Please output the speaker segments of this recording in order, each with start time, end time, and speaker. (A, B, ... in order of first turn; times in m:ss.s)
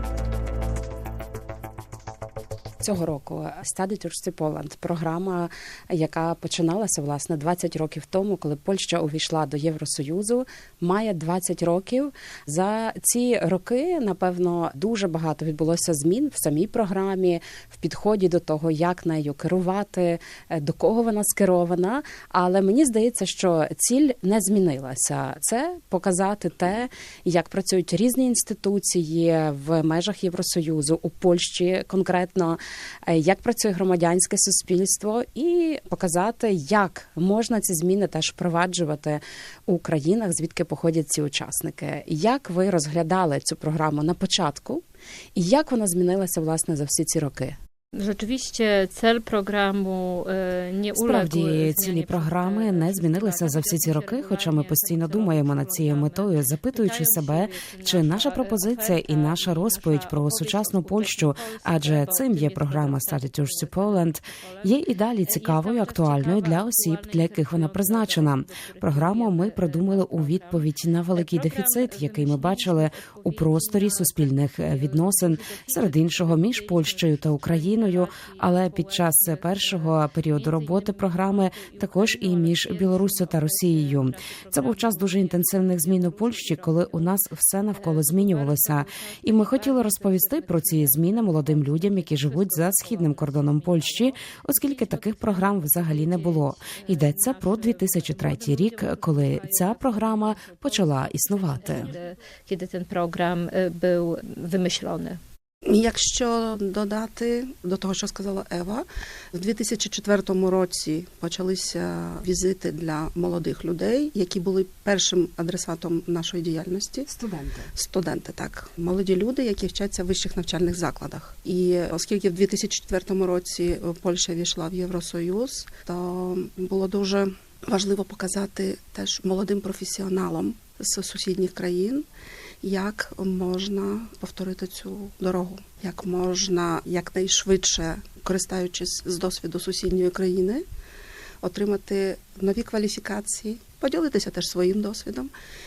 0:02.8-0:44.8 A
0:45.3-0:47.6 A
0:47.9-1:45.2 B
0:50.9-1:41.9 A
1:45.6-1:57.1 C
1:57.1-1:57.7 A
1:57.7-2:12.0 C
2:12.6-2:20.6 C
2:21.4-2:25.3 C